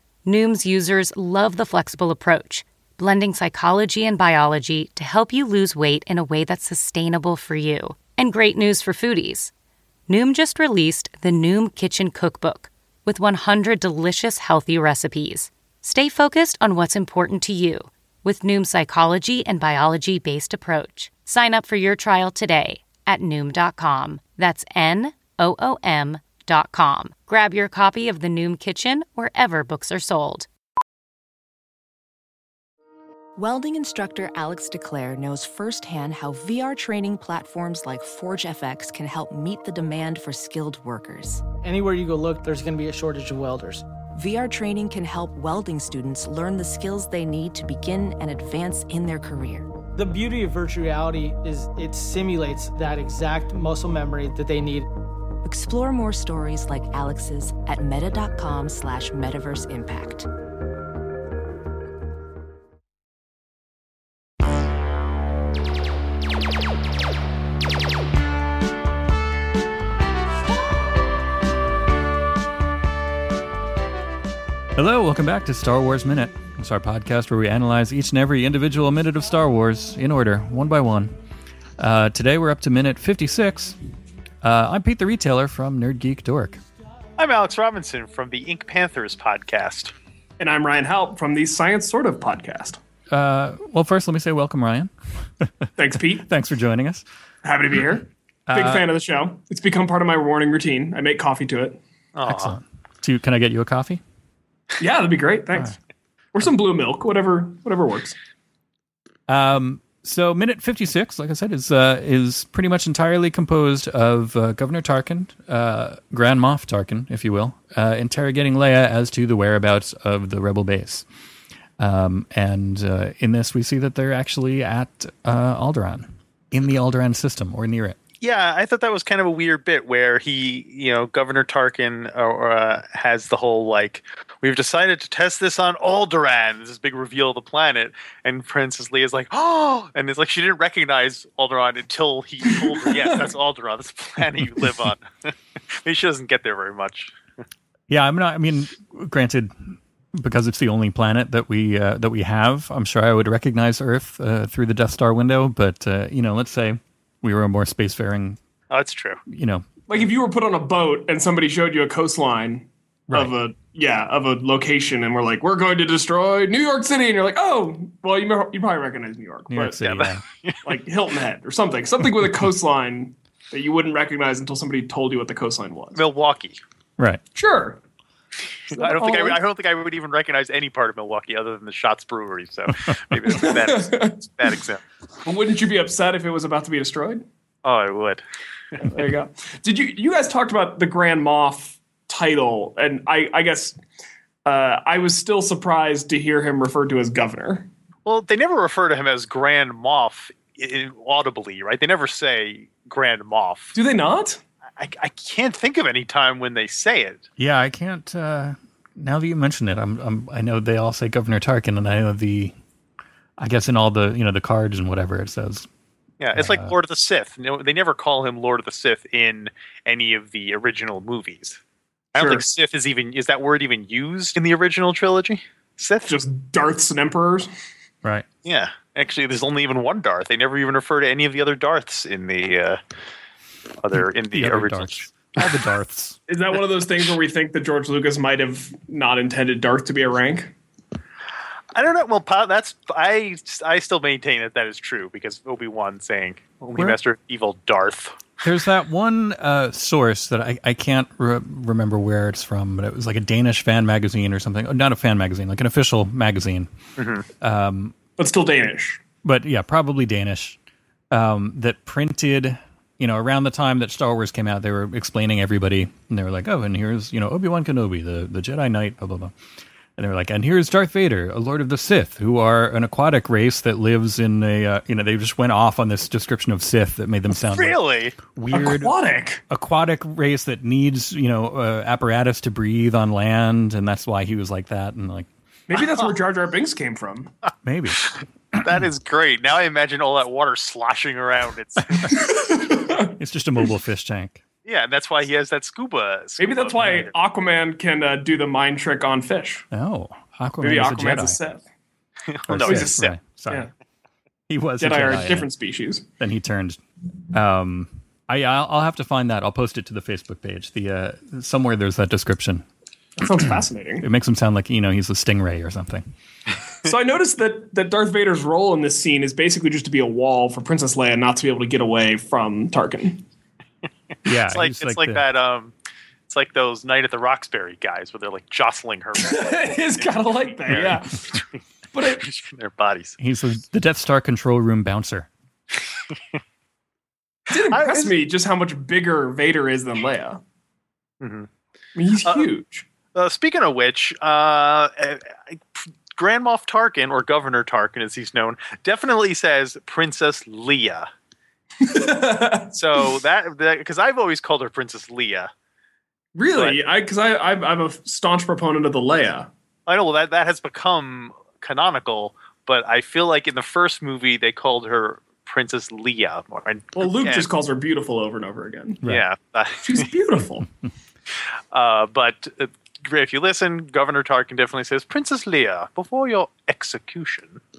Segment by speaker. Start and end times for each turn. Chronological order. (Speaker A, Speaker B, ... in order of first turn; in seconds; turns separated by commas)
Speaker A: 0.2-9.5, Speaker A: 10.1-30.5, Speaker B: 33.4-41.5, Speaker C: 41.6-43.9, Speaker B: 44.2-49.7, Speaker C: 50.0-54.9, Speaker B: 55.4-60.3, Speaker D: 74.8-81.1, Speaker D: 81.8-83.8, Speaker D: 84.4-86.6, Speaker E: 87.2-89.9, Speaker F: 90.4-92.8, Speaker D: 93.1-97.1, Speaker F: 95.8-96.3, Speaker F: 97.4-101.8, Speaker D: 98.5-98.9, Speaker E: 102.2-102.5, Speaker D: 102.3-104.0, Speaker F: 104.8-105.8, Speaker F: 106.3-108.2, Speaker D: 109.3-121.1, Speaker D: 121.8-128.0, Speaker E: 128.2-147.1, Speaker D: 147.9-158.4, Speaker E: 158.7-159.2, Speaker D: 159.3-159.7, Speaker F: 159.9-169.9, Speaker D: 169.5-170.2, Speaker E: 169.8-170.6, Speaker F: 170.6-176.0, Speaker E: 175.9-176.6, Speaker F: 177.3-177.8, Speaker E: 178.7-184.8, Speaker F: 178.7-179.4, Speaker F: 183.3-184.6, Speaker F: 185.2-187.2, Speaker E: 187.6-188.2, Speaker F: 188.8-193.8, Speaker F: 194.4-197.7, Speaker E: 198.1-203.8, Speaker F: 203.8-204.4, Speaker E: 204.8-207.3, Speaker D: 207.4-212.6, Speaker D: 213.4-215.7, Speaker E: 216.2-221.6, Speaker D: 216.3-216.7, Speaker E: 222.2-226.1, Speaker F: 222.2-222.4, Speaker F: 226.1-227.5, Speaker E: 228.4-232.8, Speaker E: 233.8-235.2, Speaker D: 234.3-236.2, Speaker F: 236.3-240.6, Speaker E: 241.8-248.2, Speaker D: 248.4-256.7, Speaker E: 257.0-257.3, Speaker D: 257.4-258.0, Speaker F: 258.2-259.0, Speaker D: 259.2-260.6, Speaker D: 261.1-269.3, Speaker D: 270.0-278.9, Speaker E: 277.4-278.2, Speaker F: 278.5-279.4, Speaker D: 279.5-285.3, Speaker F: 285.7-287.3, Speaker E: 285.8-286.1, Speaker D: 287.6-288.1, Speaker E: 288.6-292.2, Speaker F: 292.1-293.7, Speaker D: 293.2-294.4, Speaker E: 294.6-297.1, Speaker F: 296.4-299.7, Speaker D: 299.7-301.4, Speaker F: 300.6-301.6, Speaker E: 302.3-303.1, Speaker D: 302.5-303.6, Speaker F: 302.6-303.0, Speaker D: 304.5-305.5, Speaker F: 304.8-306.1, Speaker D: 306.2-306.8, Speaker D: 307.3-312.7, Speaker F: 313.2-314.1, Speaker D: 314.0-316.1, Speaker F: 316.9-323.2, Speaker D: 324.2-325.2, Speaker E: 324.5-325.8, Speaker E: 326.3-331.6, Speaker F: 329.2-331.2, Speaker F: 331.9-332.2, Speaker E: 332.2-333.2, Speaker D: 333.2-335.3, Speaker E: 336.1-336.4, Speaker F: 337.5-340.4, Speaker E: 337.6-338.1, Speaker E: 341.2-341.5, Speaker F: 341.9-342.9, Speaker E: 343.1-351.1, Speaker F: 351.8-353.1, Speaker E: 352.7-355.5, Speaker F: 356.4-359.5, Speaker E: 356.5-356.8, Speaker E: 359.9-367.5, Speaker F: 367.0-369.1, Speaker E: 369.1-370.0, Speaker F: 369.8-370.7, Speaker E: 371.7-377.6